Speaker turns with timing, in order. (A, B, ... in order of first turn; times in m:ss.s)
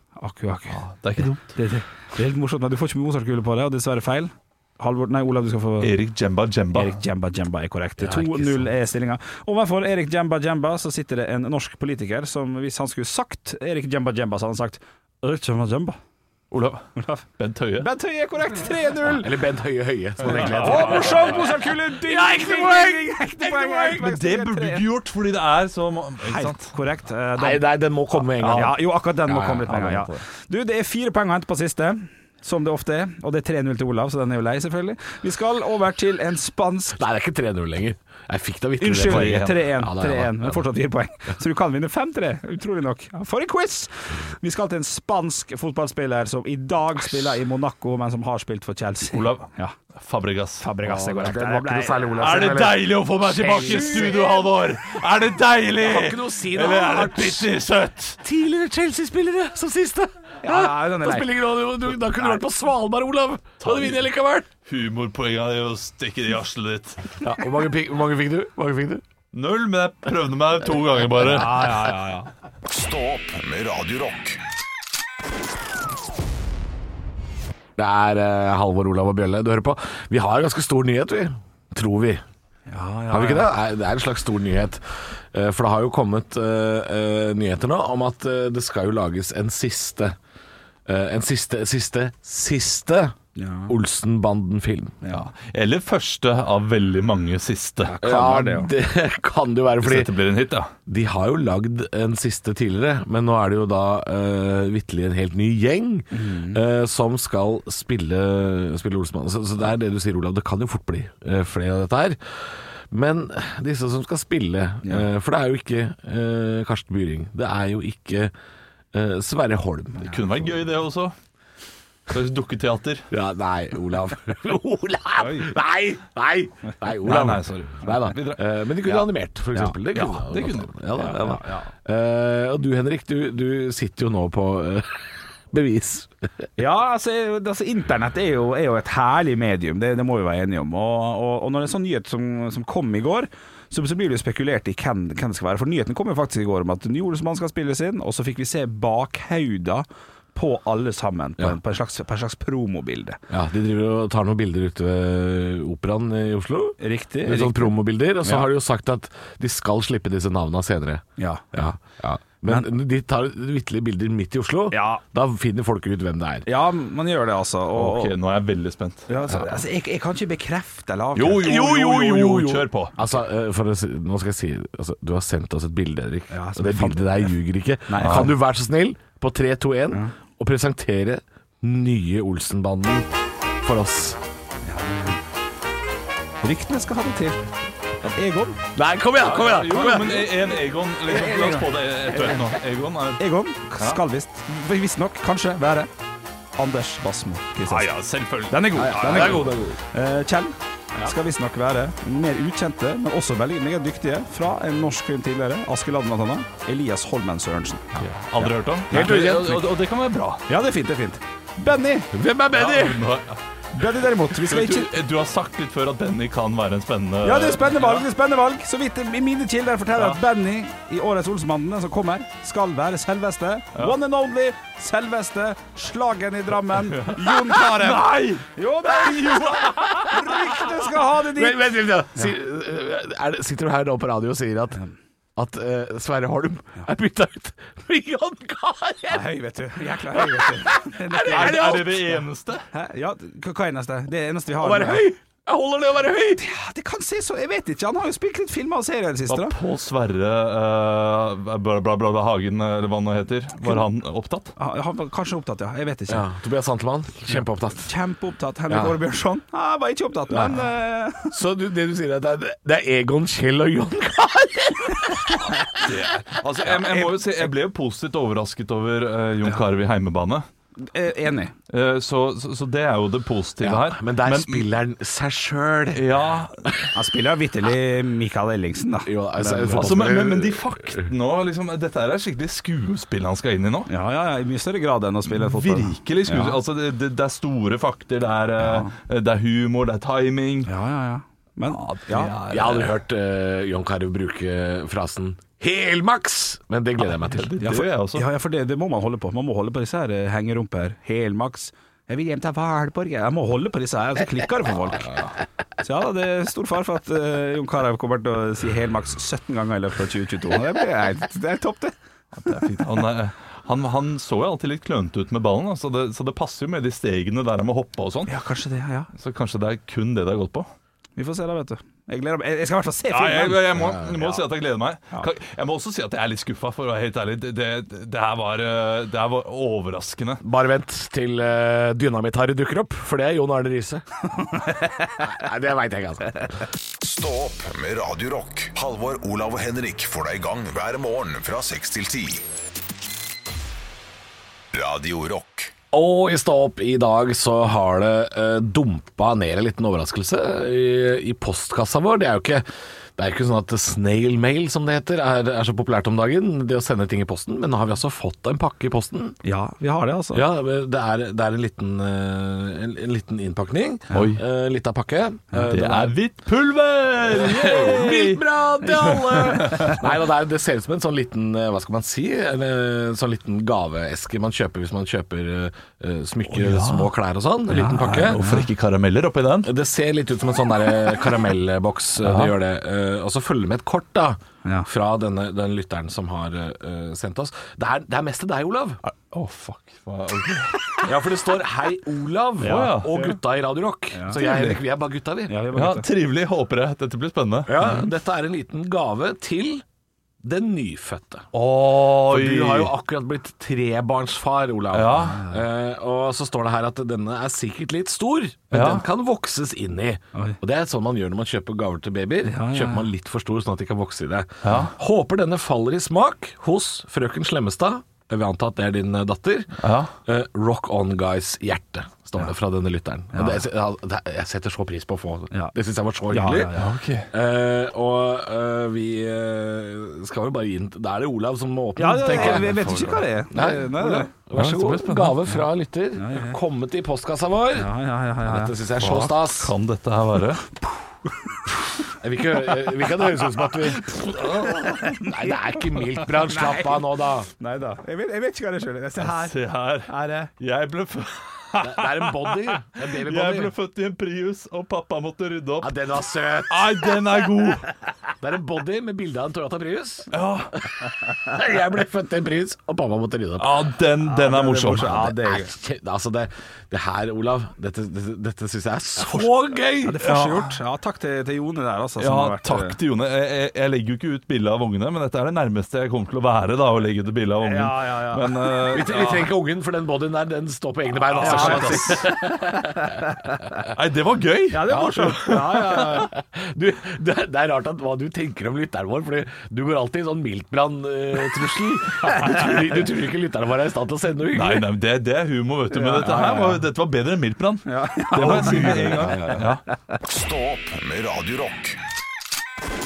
0:00.2-0:05.9 A
0:00.7-0:01.5 B
0:05.8-0:07.0 B
0:06.7-0:16.0 A
0:08.0-0:08.7 C
0:16.5-0:16.8 B
0:17.0-0:17.2 A
0:17.4-0:17.9 B
0:17.8-0:19.3 A
0:19.1-0:24.0 C
0:20.2-0:24.8 A
0:20.3-0:21.4 B
0:23.9-0:26.7 B
0:26.2-0:37.0 A
0:27.4-0:28.8 C
0:29.3-0:29.8 C
0:29.3-0:30.2 B
0:37.0-0:40.6 C
0:38.8-0:49.7 A
0:39.0-0:39.6 B
0:49.1-0:50.7 B
0:50.6-0:52.5 A
0:50.8-0:54.4 C
0:52.2-0:58.2 B
0:53.4-0:54.2 A
0:55.7-0:57.5 C
0:58.2-1:04.5 C
1:00.4-1:01.4 A
1:03.6-1:04.0 B
1:04.6-1:07.2 B
1:07.2-1:09.0 C
1:09.3-1:11.9 B
1:11.2-1:12.3 A
1:12.7-1:14.4 D
1:17.8-1:22.2 C
1:22.7-1:23.5 A
1:23.1-1:30.2 C
1:30.8-1:33.2 C
1:33.4-1:33.7 A
1:33.7-1:35.0 C
1:35.0-1:38.0 B
1:37.8-1:38.7 A
1:38.0-1:40.1 C
1:39.8-1:40.7 B
1:40.9-1:52.2 C
1:46.1-1:46.6 A
1:52.9-1:58.3 C
1:58.9-2:00.1 C
2:00.0-2:01.1 B
2:02.1-2:03.0 B
2:03.1-2:16.2 C
2:05.2-2:05.5 A
2:07.0-2:08.4 B
2:09.9-2:10.8 B
2:11.0-2:11.7 A
2:16.6-2:33.2 A
2:33.3-2:41.0 C
2:36.8-2:38.5 A
2:41.2-2:41.6 A
2:41.5-2:46.5 C
2:44.7-2:45.0 A
2:46.4-2:48.1 A
2:47.7-2:49.0 B
2:49.1-2:51.7 A
2:49.3-2:49.6 C
2:51.1-2:52.9 B
2:51.4-3:03.1 C
2:56.3-2:57.3 A
2:57.9-2:58.3 A
2:58.0-2:58.3 B
3:03.6-3:04.2 C
3:04.6-3:05.2 A
3:06.4-3:07.4 A
3:08.0-3:08.6 A
3:08.7-3:10.3 C
3:09.2-3:13.2 B
3:11.1-3:12.6 A
3:13.2-3:15.9 A
3:16.6-3:27.9 A
3:17.7-3:19.5 B
3:18.8-3:19.8 C
3:28.0-3:30.4 B
3:28.9-3:29.6 C
3:28.9-3:29.6 A
3:30.5-3:32.1 A
3:32.1-3:33.1 C
3:32.5-3:33.4 B
3:33.7-3:34.9 A
3:34.3-3:38.0 B
3:37.2-3:51.6 A
3:47.0-3:49.9 B
3:51.3-3:54.8 C
3:55.4-3:59.3 C
3:59.1-4:01.8 A
4:00.2-4:02.0 C
4:01.3-4:02.6 B
4:02.7-4:05.1 A
4:04.6-4:06.4 C
4:06.4-4:09.5 A
4:09.3-4:14.5 B
4:14.6-4:16.2 A
4:16.1-4:17.9 C
4:17.3-4:21.3 A
4:18.7-4:19.0 C
4:20.3-4:20.6 C
4:21.3-4:25.7 C
4:25.7-4:30.4 B
4:26.6-4:27.3 A
4:30.8-4:31.5 A
4:31.7-4:34.6 B
4:33.6-4:36.1 C
4:35.9-4:36.7 B
4:36.9-4:39.8 A
4:39.0-4:41.0 C
4:39.6-4:43.9 B
4:43.9-4:46.6 A
4:45.3-4:50.7 B
4:48.6-4:48.9 A
4:50.6-4:52.3 A
4:51.7-4:52.9 B
4:52.5-4:57.5 C
4:57.2-4:58.2 B
4:57.6-5:11.9 A
5:12.4-5:18.3 B
5:18.3-5:19.1 A
5:19.2-5:20.7 B
5:21.2-5:23.8 A
5:23.1-5:30.4 B
5:23.7-5:24.4 C
5:30.4-5:34.0 C
5:34.5-5:35.2 A
5:35.2-5:36.4 C
5:37.0-5:42.4 D
5:44.7-5:45.7 D
5:45.9-5:52.6 C
5:53.2-5:59.4 C
5:59.4-6:00.4 A
6:00.3-6:06.1 C
6:04.1-6:04.4 B
6:05.7-6:10.0 B
6:07.3-6:18.4 C
6:16.5-6:17.1 B
6:17.7-6:18.7 A
6:17.9-6:19.7 B
6:19.6-6:29.0 C
6:22.2-6:22.5 B
6:29.3-6:30.8 B
6:31.0-6:35.6 C
6:32.6-6:33.4 A
6:32.6-6:33.1 B
6:34.1-6:34.4 A
6:34.3-6:34.8 B
6:35.5-6:36.1 A
6:35.7-6:37.8 B
6:37.6-6:39.8 C
6:40.4-6:41.5 C
6:41.5-6:42.9 B
6:42.0-7:06.7 C
6:44.9-6:45.4 B
6:48.7-6:49.0 B
6:52.4-6:53.1 A
6:54.6-6:54.9 B
6:59.8-7:00.1 B
7:03.3-7:03.6 A
7:06.3-7:06.9 A
7:06.7-7:07.3 B
7:07.3-7:19.7 C
7:12.0-7:14.3 A
7:12.3-7:13.2 B
7:14.5-7:15.4 B
7:16.1-7:16.6 A
7:17.7-7:18.7 A
7:19.0-7:20.6 B
7:22.2-7:24.1 C
7:24.0-7:25.2 B
7:24.8-7:25.5 A
7:25.2-7:27.5 C
7:26.1-7:27.0 A
7:27.6-7:30.5 A
7:29.2-7:35.9 B
7:31.8-7:33.7 C
7:35.8-7:37.2 C
7:36.7-7:37.9 B
7:38.4-7:40.3 C
7:40.3-7:40.7 B
7:41.4-7:43.9 C
7:43.6-7:45.4 B
7:44.2-7:45.7 A
7:45.1-7:50.2 C
7:49.2-7:49.5 B
7:50.0-7:53.0 A
7:50.2-7:50.7 B
7:52.2-7:59.5 B
7:57.6-7:58.5 A
7:58.9-8:03.2 C
8:01.3-8:02.3 B
8:01.4-8:02.2 A
8:03.9-8:05.8 B
8:04.7-8:06.3 A
8:04.9-8:14.9 C
8:14.5-8:19.8 B
8:15.9-8:16.8 A
8:16.2-8:16.6 C
8:17.8-8:19.5 A
8:18.4-8:19.7 C
8:20.2-8:22.0 D